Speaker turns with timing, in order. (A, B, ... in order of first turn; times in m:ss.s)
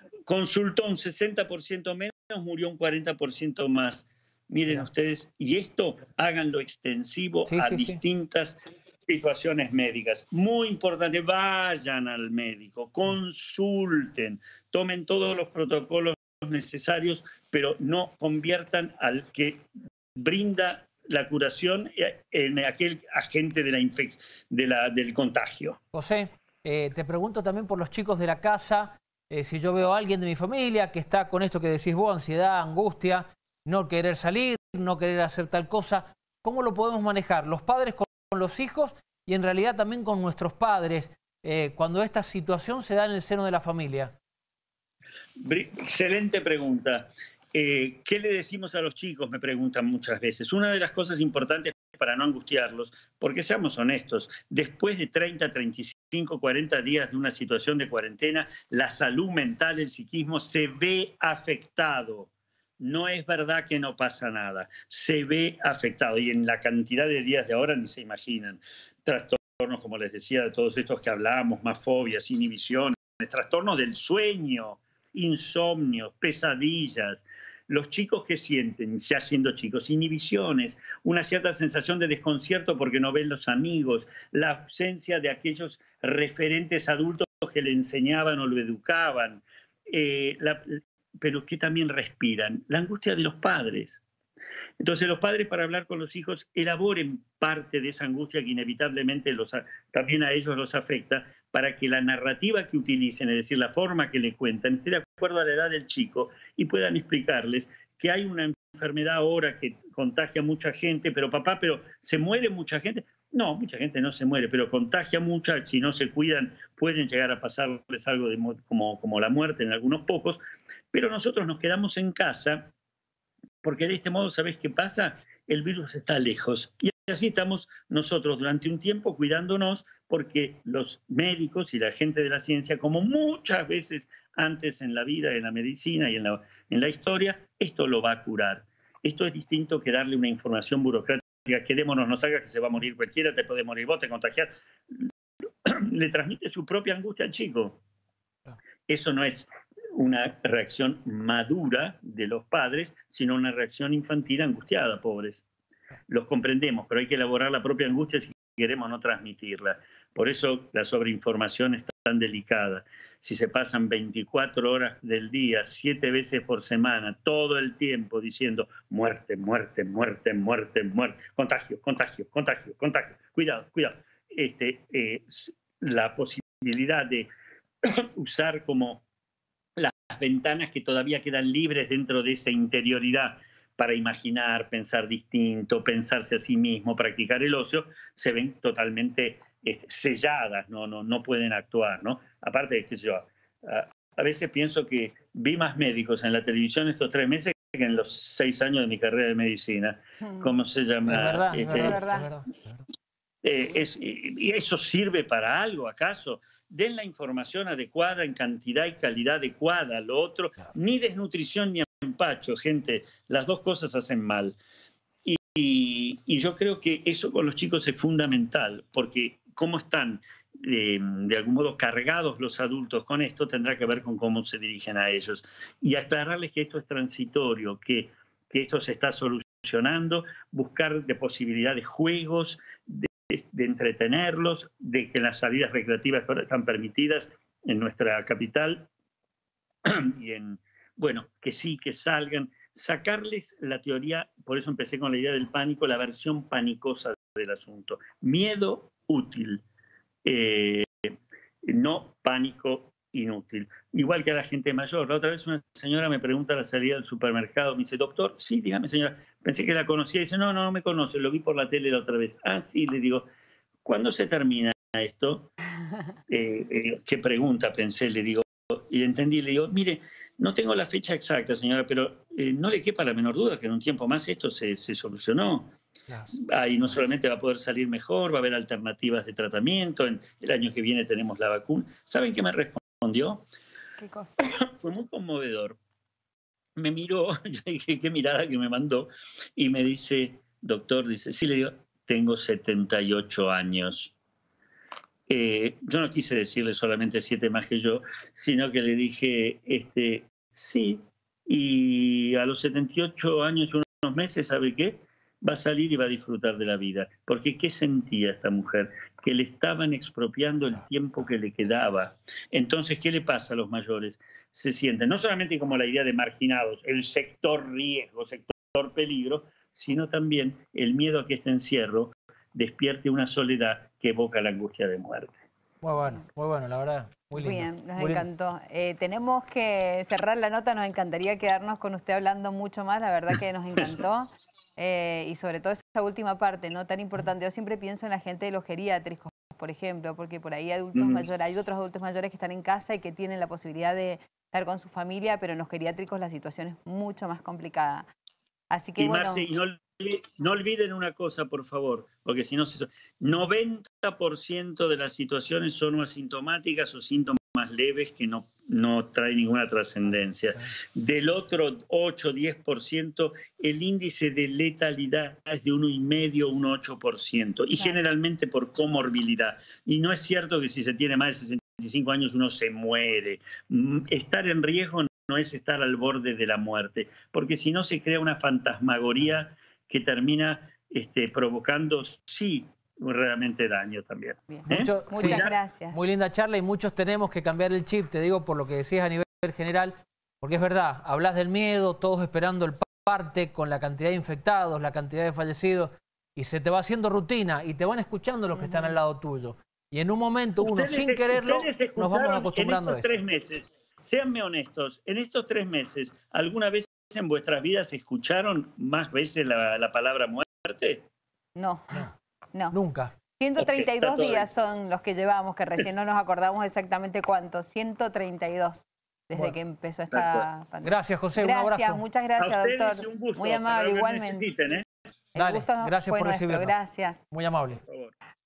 0:00.3-0:25.8 A
0:07.5-0:08.0 B
0:25.9-0:44.1 B
0:45.4-1:34.0 A
1:34.8-2:00.4 A
2:00.9-2:02.7 A
2:03.6-2:25.1 A
2:25.6-2:27.8 A
2:28.9-2:35.4 A
2:36.1-2:57.3 A
2:57.8-2:59.0 A
2:59.8-3:22.0 A
3:21.1-3:22.5 B
3:21.7-3:22.3 C
3:23.4-3:34.6 A
3:35.2-3:58.9 A
3:59.8-4:09.6 A
4:10.2-4:11.1 A
4:11.6-4:23.3 A
4:23.8-4:25.5 A
4:26.3-4:35.8 A
4:36.3-4:43.4 A
4:44.0-4:44.4 C
4:44.4-4:45.8 A
4:46.8-4:54.1 A
4:55.3-5:25.4 A
5:25.8-5:28.3 B
5:27.3-5:48.1 C
5:40.9-5:41.3 A
5:48.7-5:49.6 C
5:49.0-6:25.6 A
6:24.5-6:26.0 C
6:24.7-6:43.1 B
6:38.6-6:38.9 C
6:40.6-6:51.0 A
6:51.6-6:52.8 C
6:52.7-6:53.1 B
6:53.4-7:04.5 C
6:53.6-6:54.5 A
7:00.1-7:00.5 A
7:00.8-7:02.0 B
7:02.4-7:04.8 A
7:05.4-7:07.2 C
7:05.4-7:06.8 B
7:07.3-7:07.8 B
7:07.8-7:08.1 A